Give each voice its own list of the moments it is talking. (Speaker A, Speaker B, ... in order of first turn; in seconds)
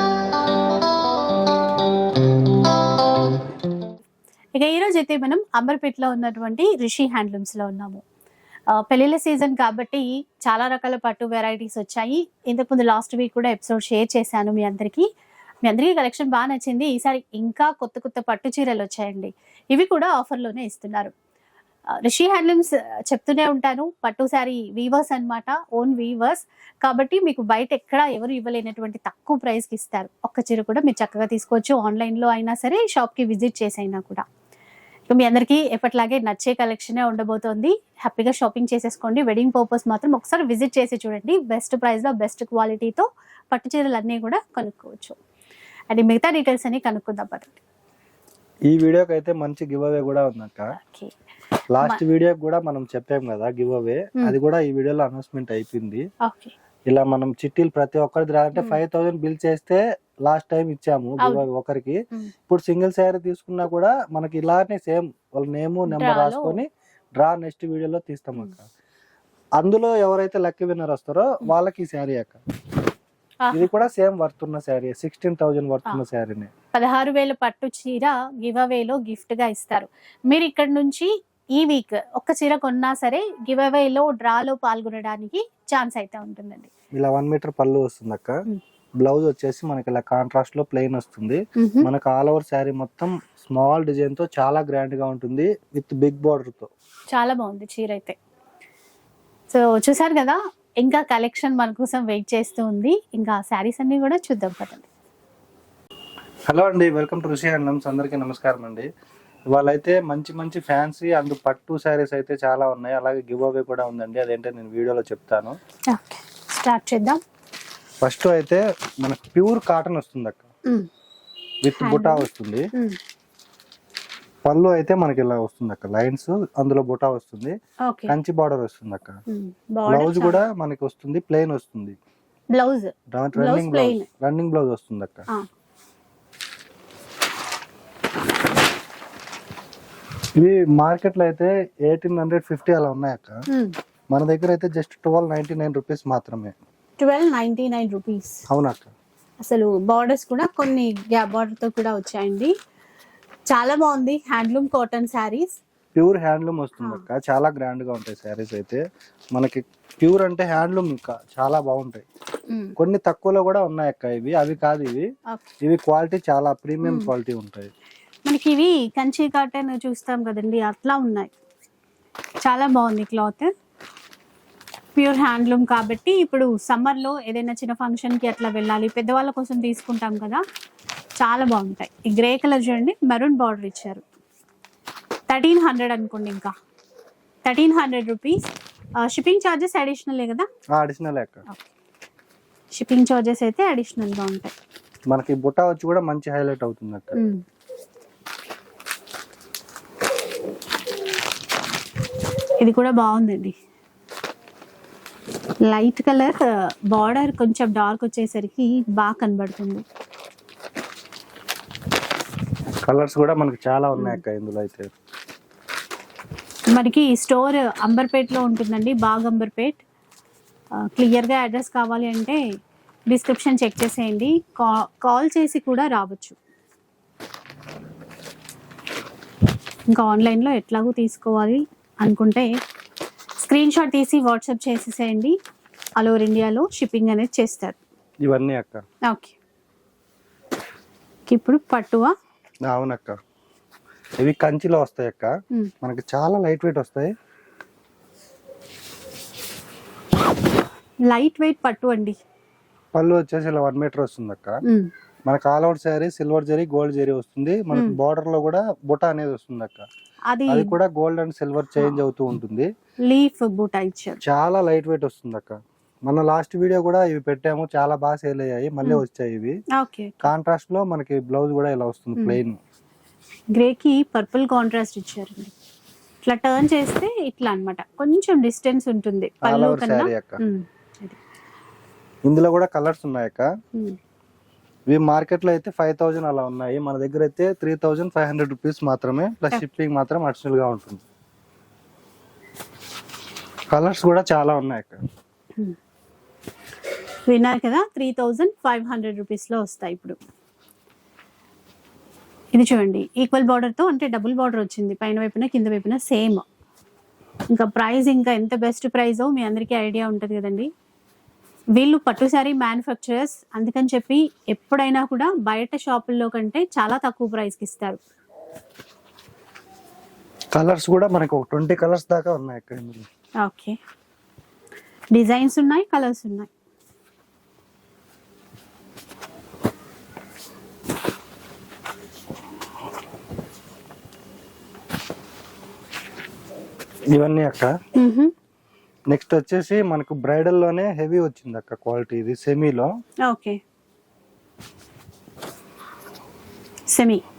Speaker A: 4.5-8.0, 8.7-15.1, 15.6-21.1, 21.9-34.2, 35.1-45.2, 45.9-47.6, 50.8-51.1, 56.2-56.5, 58.5-58.8, 61.2-61.4, 65.9-66.6, 73.4-73.7, 76.7-86.7, 91.6-91.9, 97.1-98.2, 99.5-104.9, 115.9-117.2, 121.8-123.0, 127.8-128.1, 129.3-130.4, 132.5-134.1, 143.5-143.7, 147.0-148.4, 149.4-152.5, 153.5-155.6, 162.5-162.7, 166.8-167.1, 168.3-171.3, 172.4-173.5, 174.9-180.4, 181.2-184.0, 185.3-186.5, 187.4-188.5, 189.0-190.5, 192.7-194.5, 197.1-197.4, 202.6-203.5, 205.7-209.8, 214.0-214.2, 216.7-219.8, 220.8-222.4, 223.1-226.3, 229.9-232.5, 233.4-235.3, 236.0-237.8, 239.1-239.3, 241.3-242.1, 251.1-252.2, 254.6-254.9, 257.7-258.0, 260.3-260.8, 263.0-264.2, 269.8-270.3, 273.5-275.5, 276.2-281.2, 297.3-300.2, 302.5-306.4, 307.5-310.7, 311.8-318.0, 323.4-323.8, 325.1-326.5, 337.9-338.3, 343.2-343.6, 346.9-347.2
Speaker B: 48.7-50.7, 51.7-56.0, 56.9-68.7, 69.6-72.4, 73.5-76.5, 86.9-88.4, 89.0-96.7, 106.5-108.9, 109.5-115.6, 118.0-120.5, 121.6-122.7, 124.4-127.6, 128.1-129.2, 129.9-131.9, 133.1-135.3, 140.4-143.4, 144.1-146.5, 148.5-148.9, 155.9-158.8, 159.3-162.0, 162.8-165.1, 165.6-167.7, 190.7-191.4, 195.1-197.2, 212.8-214.9, 238.2-238.8, 242.7-243.2, 244.2-247.1, 252.9-254.6, 255.2-259.9, 260.5-262.7, 264.2-269.6, 270.2-272.6, 279.4-280.4, 282.2-283.5, 284.9-291.0, 293.7-295.0, 320.5-323.1, 337.1-337.7, 339.1-342.9